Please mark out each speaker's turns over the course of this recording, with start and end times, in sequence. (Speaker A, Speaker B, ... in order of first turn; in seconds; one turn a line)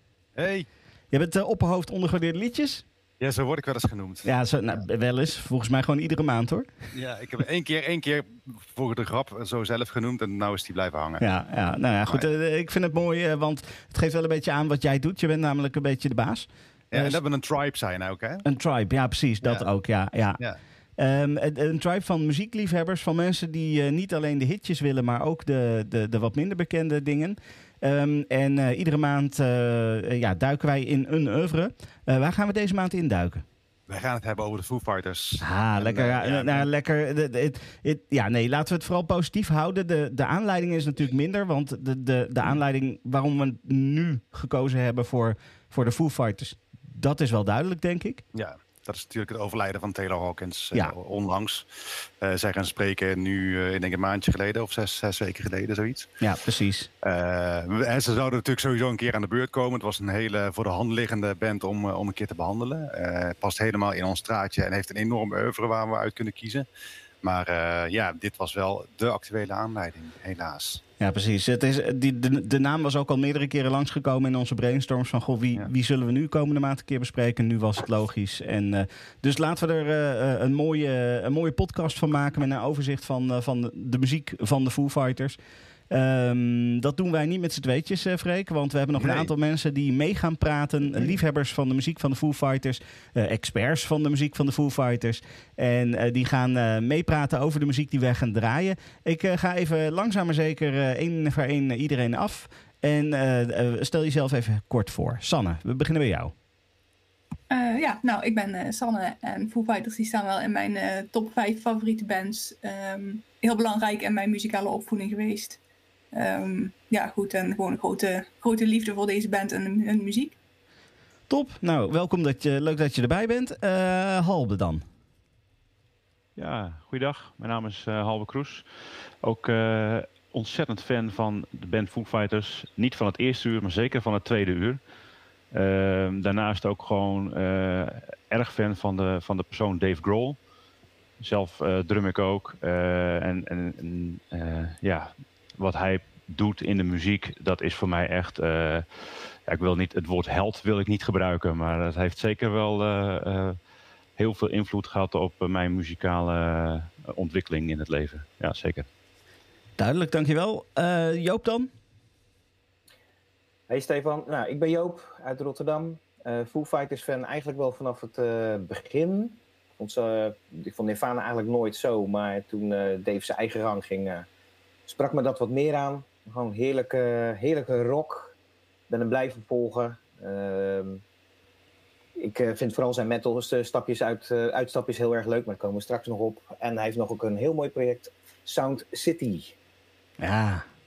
Speaker A: 0.3-0.7
Speaker B: 1.1-2.8
Speaker A: 3.2-4.3
Speaker B: 4.2-6.7
Speaker A: 6.9-11.2
Speaker B: 11.2-17.2
Speaker A: 16.9-18.4
Speaker B: 18.4-20.4
Speaker A: 19.4-19.7
Speaker B: 21.0-33.4
Speaker A: 33.9-36.6
Speaker B: 35.4-48.2
Speaker A: 48.3-56.1
Speaker B: 56.2-56.9
Speaker A: 57.0-66.7
Speaker A: 67.2-70.8
Speaker B: 71.0-85.4
Speaker B: 85.9-106.3
Speaker A: 89.0-89.3
Speaker C: 107.5-115.6
Speaker C: 116.1-120.3
Speaker B: 121.3-124.8
Speaker D: 126.3-128.7
Speaker D: 129.2-134.8
Speaker D: 135.5-140.4
Speaker D: 141.2-153.6
Speaker D: 154.2-158.9
Speaker B: 159.8-161.7
Speaker E: 163.7-174.3
Speaker E: 174.9-178.3
Speaker E: 178.9-181.0
Speaker E: 182.2-189.6
Speaker B: 190.2-190.7